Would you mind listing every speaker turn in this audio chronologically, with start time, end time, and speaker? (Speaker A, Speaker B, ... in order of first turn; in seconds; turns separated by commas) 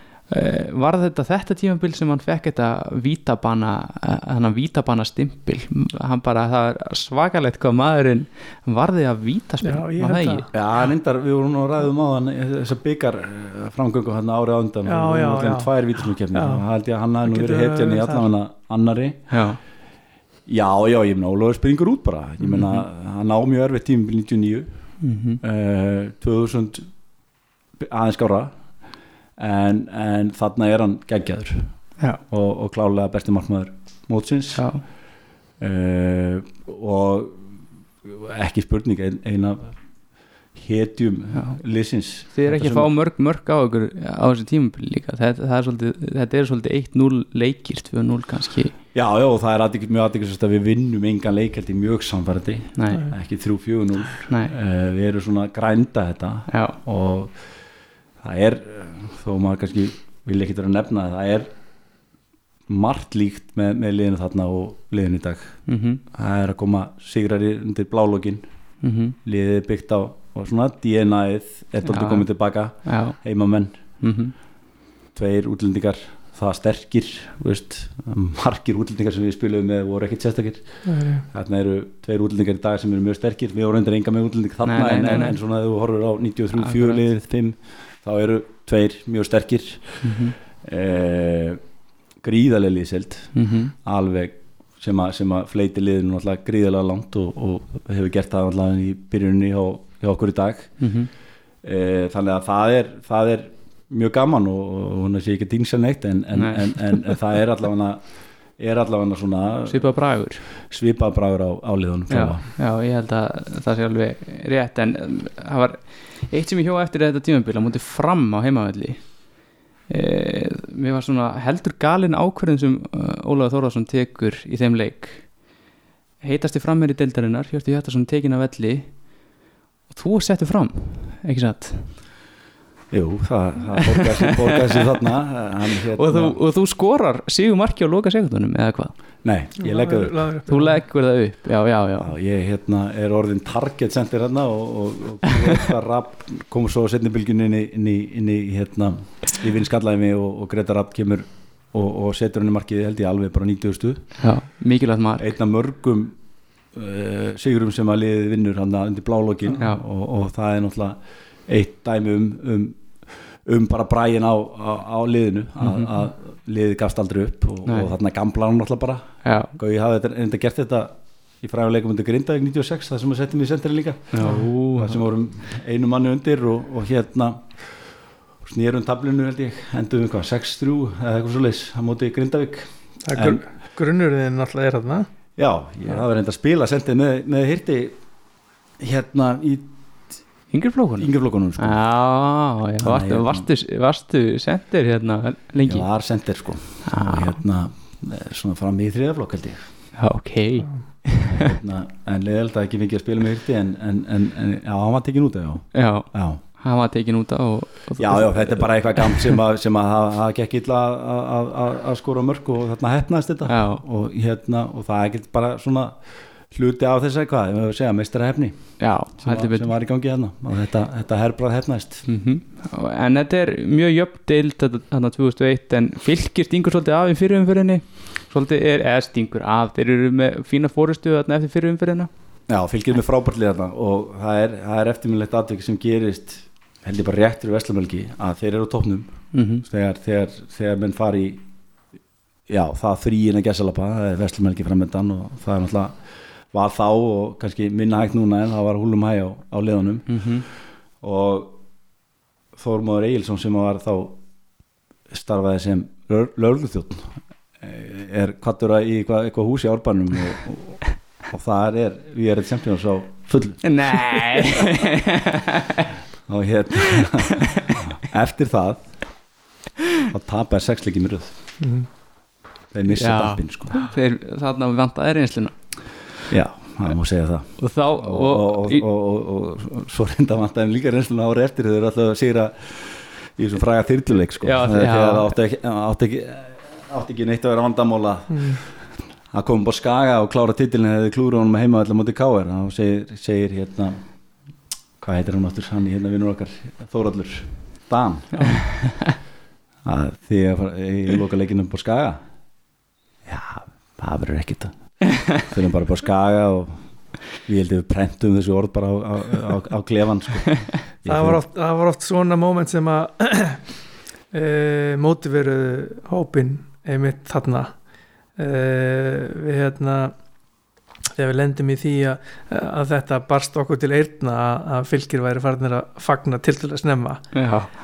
Speaker A: 0.3-10.5, Speaker B: 9.6-10.5, Speaker C: 10.5-19.2, Speaker B: 14.9-16.6, Speaker B: 17.2-18.3, Speaker A: 19.3-19.6, Speaker C: 20.5-26.9, Speaker A: 22.4-22.9, Speaker A: 25.0-25.4, Speaker C: 27.8-28.6, Speaker C: 29.4-34.7, Speaker A: 34.5-34.8, Speaker C: 35.6-37.4, Speaker C: 38.0-39.7, Speaker C: 40.5-42.9, Speaker A: 41.3-41.6, Speaker A: 42.2-48.8, Speaker C: 48.9-57.5, Speaker A: 52.8-53.1, Speaker A: 56.5-56.8, Speaker C: 58.2-61.5, Speaker C: 62.7-68.5, Speaker A: 65.7-66.0, Speaker A: 68.8-69.2, Speaker C: 69.2-73.7, Speaker A: 71.8-73.2, Speaker A: 74.0-74.3, Speaker C: 75.1-91.6, Speaker B: 80.8-81.2, Speaker A: 84.6-85.3, Speaker A: 86.6-87.0, Speaker A: 90.0-90.4, Speaker C: 92.2-100.9, Speaker A: 93.3-93.7, Speaker A: 100.8-101.1, Speaker C: 101.6-109.9, Speaker A: 106.3-107.2, Speaker A: 109.7-110.4, Speaker C: 110.7-112.4, Speaker A: 112.1-125.4, Speaker A: 126.2-129.2, Speaker A: 129.9-132.0, Speaker C: 132.9-136.4, Speaker A: 134.0-134.7, Speaker A: 136.0-138.9, Speaker C: 139.2-140.2, Speaker B: 139.6-140.8, Speaker A: 140.5-142.1, Speaker C: 142.0-154.1, Speaker A: 154.2-155.3, Speaker C: 155.2-156.2, Speaker C: 156.7-162.8, Speaker C: 163.4-183.4, Speaker A: 165.6-166.0, Speaker A: 167.7-167.9, Speaker A: 169.2-169.5, Speaker A: 174.1-175.0, Speaker B: 183.1-185.1, Speaker C: 185.4-188.0, Speaker C: 188.8-189.7, Speaker A: 190.5-195.9, Speaker C: 191.0-191.8, Speaker C: 192.8-193.5, Speaker C: 195.6-199.9, Speaker A: 196.8-197.4, Speaker A: 200.0-201.4, Speaker C: 201.2-206.4, Speaker A: 205.7-209.4, Speaker C: 208.0-222.0, Speaker A: 213.5-213.8, Speaker A: 218.8-219.7, Speaker A: 222.1-232.1, Speaker C: 232.5-241.4, Speaker A: 239.3-239.7, Speaker C: 242.5-246.0, Speaker C: 246.5-250.3, Speaker A: 250.1-250.5, Speaker C: 251.0-251.5, Speaker C: 252.6-254.2, Speaker C: 255.1-264.5, Speaker A: 263.6-265.9, Speaker C: 266.3-269.1, Speaker C: 270.1-271.3, Speaker B: 271.6-271.9, Speaker C: 272.7-273.8, Speaker A: 272.9-275.7, Speaker C: 276.3-294.0, Speaker A: 277.6-278.8, Speaker A: 284.4-285.3, Speaker B: 288.3-288.6, Speaker C: 295.0-298.3, Speaker B: 298.4-298.6, Speaker A: 298.4-299.2, Speaker C: 299.9-302.2, Speaker C: 303.3-311.4, Speaker B: 311.1-313.7, Speaker B: 314.3-317.8, Speaker B: 318.4-320.1, Speaker B: 321.2-327.3, Speaker A: 327.3-327.8